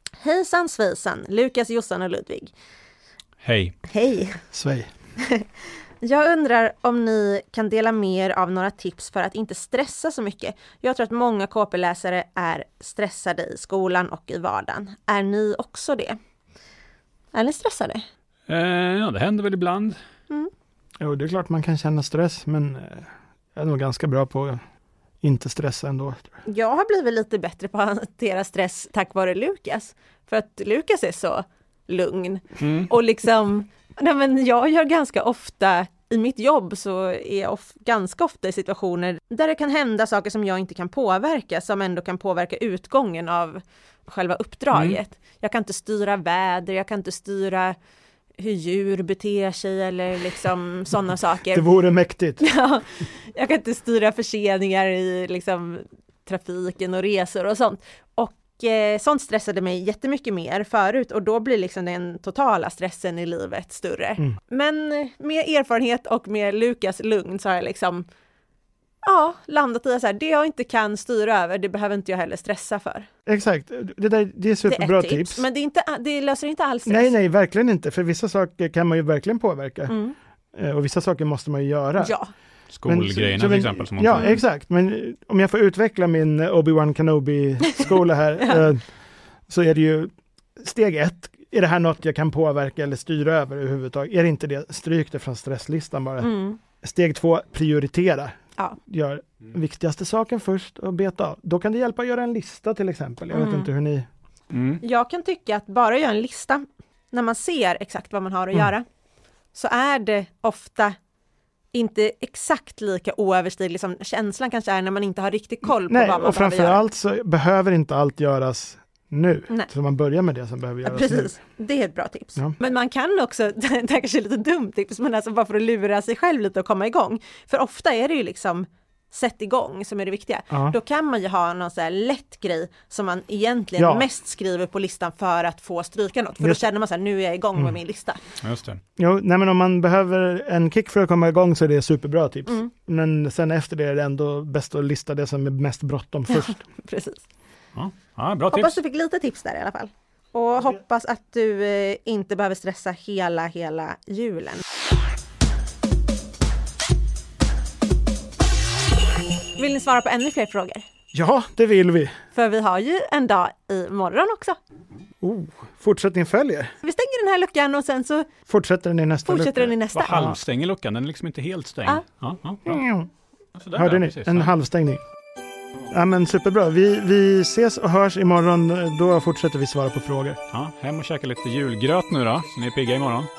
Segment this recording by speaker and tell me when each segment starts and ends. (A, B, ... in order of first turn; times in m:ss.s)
0:00.2-0:02.5 A
0:03.4-0:03.8 B
0:03.9-0:04.4 A
0:04.5-0:04.9 C
0:05.2-0:16.2 A
0:17.3-0:18.0 A
0:18.5-0:20.0 B
0:21.0-0:24.6 C
0:25.2-0:26.3 C
0:26.4-0:47.8 A
0:32.6-0:32.9 B
0:48.4-0:51.6 A
0:51.5-0:52.4 C
0:52.4-1:08.0 A
1:09.0-1:13.1 A
1:13.3-1:15.4 C
1:14.7-1:17.1 A
1:16.8-1:20.0 C
1:19.9-1:20.1 A
1:20.5-1:22.1 C
1:22.0-1:22.3 A
1:22.7-1:24.3 B
1:22.8-1:28.8 C
1:27.6-1:28.6 A
1:29.5-1:38.3 C
1:36.2-1:36.6 A
1:38.9-1:44.1 C
1:43.3-1:43.7 A
1:44.5-1:44.8 B
1:44.8-1:48.8 A
1:49.5-1:51.0 A
1:51.7-1:56.8 A
1:55.9-2:01.3 C
2:00.8-2:18.2 A
2:10.5-2:10.8 C
2:13.8-2:14.1 C
2:18.4-2:18.8 B
2:19.0-2:26.6 C
2:26.3-2:27.2 A
2:27.7-2:28.8 B
2:28.5-2:34.6 A
2:39.6-2:40.8 A
2:41.1-2:42.1 C
2:42.3-2:44.6 A
2:45.2-2:46.7 C
2:46.8-2:48.3 A
2:48.5-2:50.4 C
2:49.2-2:50.3 A
2:49.9-2:52.8 B
2:52.6-2:53.1 C
2:53.6-2:54.5 B
2:53.7-2:55.0 C
2:55.9-3:00.4 C
3:00.5-3:03.3 B